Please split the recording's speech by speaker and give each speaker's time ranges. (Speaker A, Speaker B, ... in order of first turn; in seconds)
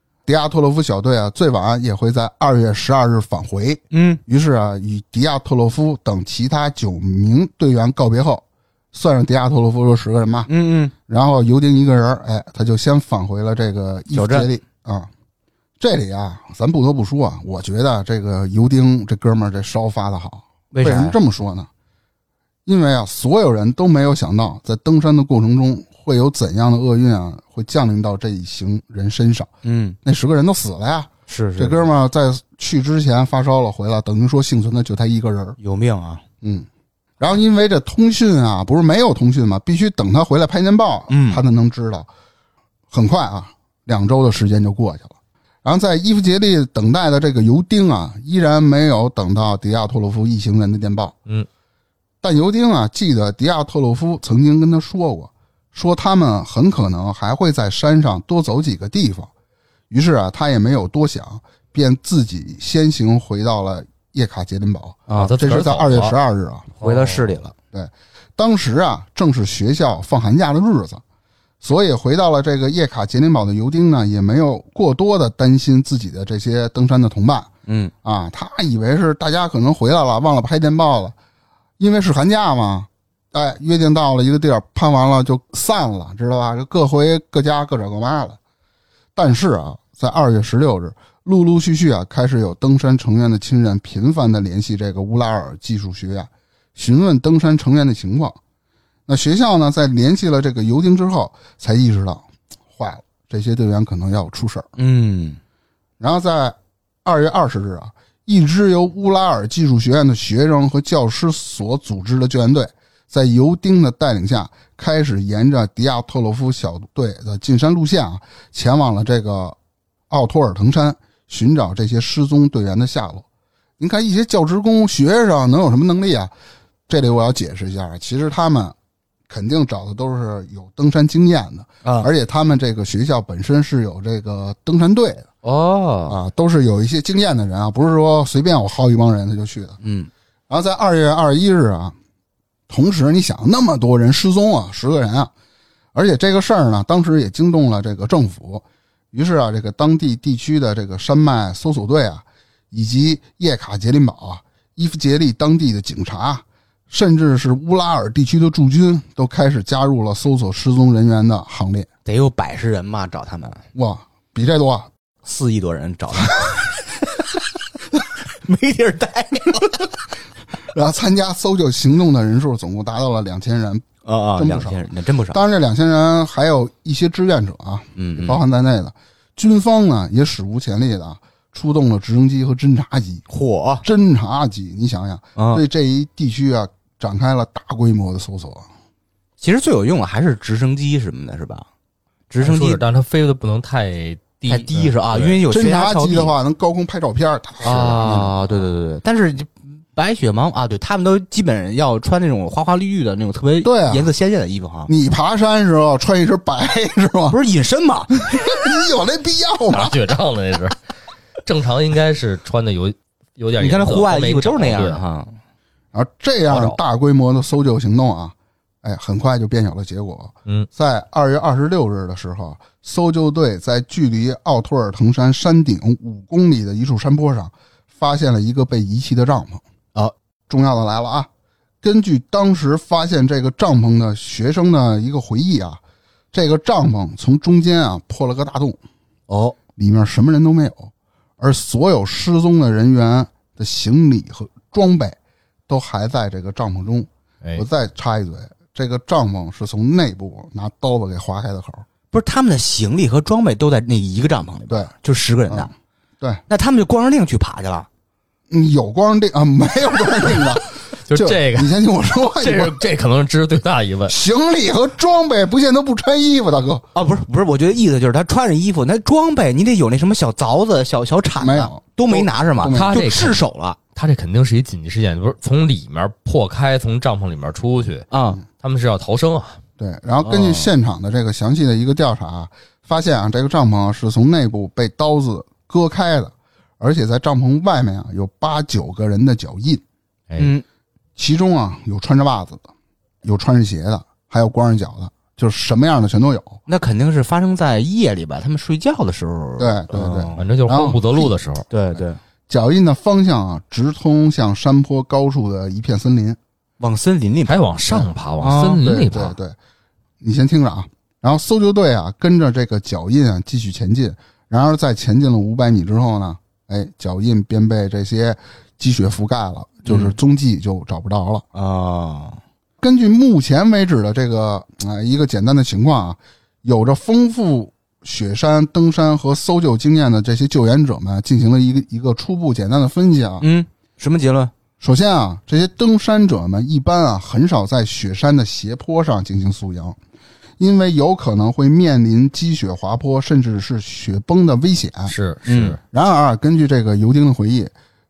Speaker A: 0.3-10.5, 11.1-15.1, 15.8-21.7, 22.7-29.5, 30.0-35.6, 36.4-36.7, 37.2-42.1, 42.9-51.2, 52.2-59.3, 59.9-66.7, 67.7-71.0, 71.6-77.5, 78.0-81.2, 81.8-88.4, 89.2-98.4, 99.1-104.7, 106.0-119.6, 120.1-123.2, 123.8-126.3, 126.9-128.8, 129.3-135.3, 136.1-139.8, 140.5-141.9, 142.7-145.3, 145.9-161.9, 163.8-164.9, 170.7-183.2, 183.8-188.7, 195.5-198.5, 203.6-204.1, 204.9-207.4, 208.3-210.0, 215.9-229.6, 230.5-231.3, 231.8-235.8, 236.3-238.8, 239.8-245.2, 245.7-251.8, 258.5-262.8, 264.1-266.9, 271.4-273.0, 279.8-289.8, 291.2-292.7, 293.2-296.6, 299.6-301.4, 302.5-306.4, 308.8-309.6, 310.2-321.4, 322.8-333.5, 334.8-340.0, 340.6-345.1, 345.9-347.7
Speaker B: 3.9-4.2, 10.5-10.9, 14.1-14.5, 20.7-21.2, 29.6-30.0, 31.3-31.9, 35.6-36.2, 41.1-41.4, 65.1-65.4, 66.8-67.5, 77.7-77.9, 104.8-105.4, 131.8-132.1, 135.4-136.2, 139.8-140.1, 162.1-163.6, 165.2-169.9, 174.0-175.4, 178.0-178.4, 183.3-183.8, 185.4-185.6, 189.4-191.7, 192.3-192.8, 194.5-196.3, 197.6-204.9, 207.3-208.4, 213.6-215.4, 239.3-239.6, 252.1-255.7, 256.5-257.9, 266.9-273.8, 278.1-278.4, 280.2-280.7, 290.4-290.6, 296.7-300.5, 301.7-302.2, 306.8-308.8, 319.9-320.2, 321.5-322.4, 333.4-334.5, 345.5-345.8
Speaker C: 65.1-66.2, 66.8-67.4, 192.4-195.4, 209.7-210.8, 211.4-215.0, 216.5-216.8, 261.1-264.2, 272.7-273.4, 274.0-278.1, 278.6-279.6, 290.3-290.5, 300.4-301.7, 307.5-309.4, 345.1-345.8